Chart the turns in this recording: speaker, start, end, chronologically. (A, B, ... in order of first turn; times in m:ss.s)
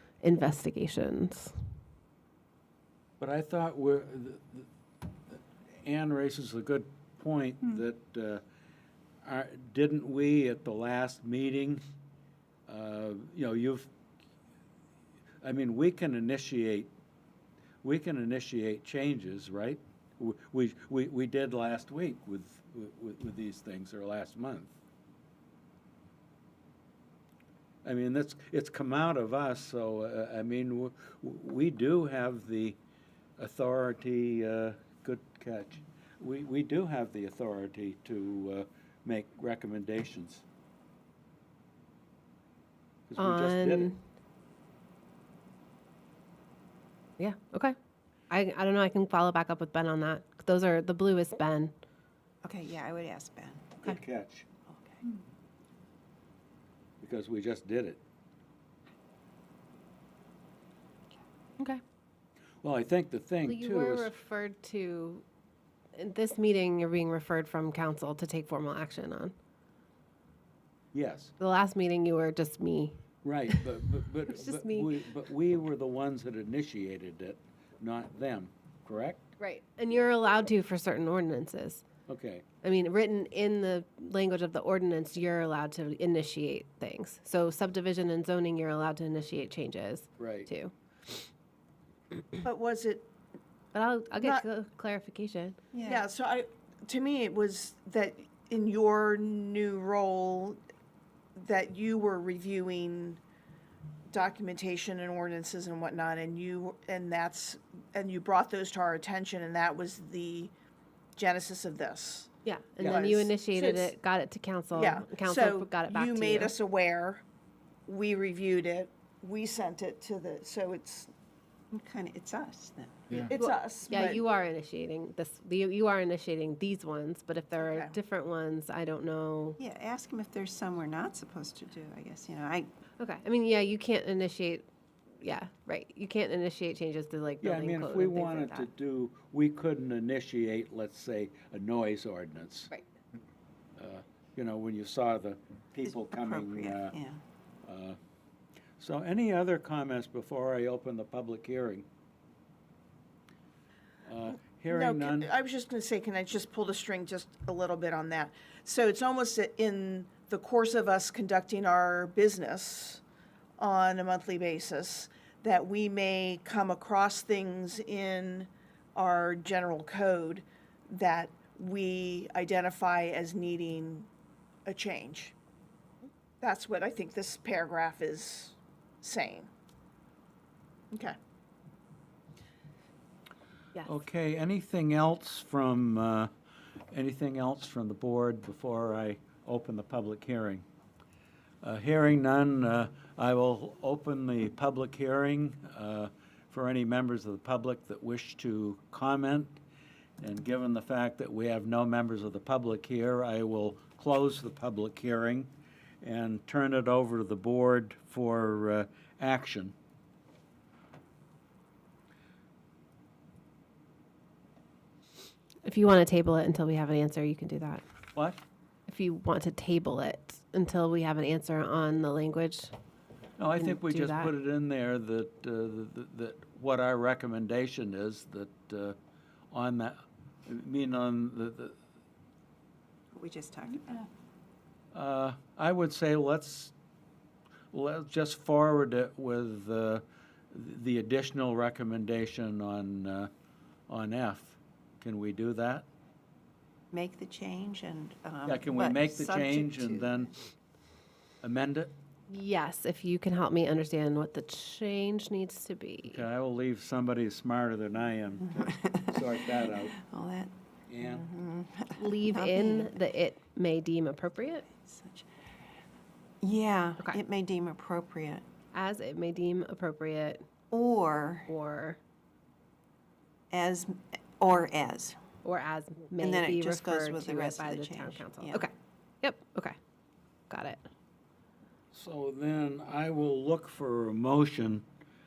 0:00.2-0:01.5 A
0:03.2-0:04.7 B
0:05.3-0:08.4 B
0:09.2-0:11.8 B
0:12.7-0:13.9 B
0:15.4-0:16.9 B
0:17.8-0:24.7 B
0:27.8-0:32.8 B
0:33.4-0:40.4 B
0:43.1-0:44.0 B
0:43.2-0:44.0 A
0:47.2-0:47.8 A
0:48.3-0:51.7 A
0:52.4-0:53.8 C
0:53.8-0:54.5 B
0:54.7-0:55.2 C
0:57.0-0:58.0 B
1:02.6-1:04.1 B
1:03.4-1:05.2 A
1:06.0-1:09.3 A
1:10.9-1:11.3 B
1:11.4-1:13.0 A
1:13.2-1:19.3 B
1:14.3-1:14.9 A
1:19.4-1:21.8 A
1:22.1-1:22.4 B
1:22.6-1:31.2 A
1:30.2-1:30.5 B
1:32.4-1:33.1 D
1:33.7-1:35.6 A
1:35.7-1:36.1 C
1:35.8-1:40.6 D
1:41.4-1:43.2 D
1:44.1-1:50.5 D
1:51.2-1:52.3 D
1:52.4-1:56.5 A
1:52.8-1:53.1 B
1:52.8-1:53.9 D
1:54.7-1:57.2 D
1:57.9-2:01.1 D
2:01.7-2:03.1 C
2:03.1-2:04.2 D
2:03.3-2:09.6 A
2:07.5-2:08.0 D
2:09.6-2:12.7 C
2:13.0-2:14.7 A
2:15.2-2:18.7 A
2:17.4-2:22.7 B
2:23.8-2:27.0 B
2:25.9-2:27.2 C
2:27.6-2:28.0 B
2:28.8-2:31.9 B
2:34.0-2:35.3 B
2:34.7-2:43.0 D
2:43.6-2:54.1 D
2:54.7-2:55.4 D
2:56.4-2:59.5 D
3:00.9-3:01.2 D
3:03.8-3:06.3 B
3:06.9-3:10.6 B
3:11.6-3:19.6 B
3:20.2-3:29.8 B
3:35.6-3:37.8 A
3:38.2-3:38.4 B
3:38.9-3:42.7 A
3:43.4-3:49.0 B
3:43.6-3:44.3 A
3:49.5-3:51.8 B
3:53.1-3:54.1 C
3:54.9-3:56.7 B
3:57.7-4:03.3 B
4:03.9-4:05.9 B
4:06.9-4:10.3 C
4:08.5-4:10.3 B
4:11.4-4:11.9 B
4:12.3-4:16.2 A
4:16.0-4:20.0 B
4:18.6-4:23.0 C
4:20.9-4:21.3 B
4:22.0-4:24.7 A
4:24.7-4:25.3 C
4:26.4-4:28.4 C
4:28.7-4:30.4 A
4:30.7-4:31.5 C
4:31.5-4:32.0 A
4:33.5-4:35.2 C
4:35.4-4:39.8 A
4:36.2-4:38.7 C
4:40.5-4:40.9 A
4:41.9-4:44.8 B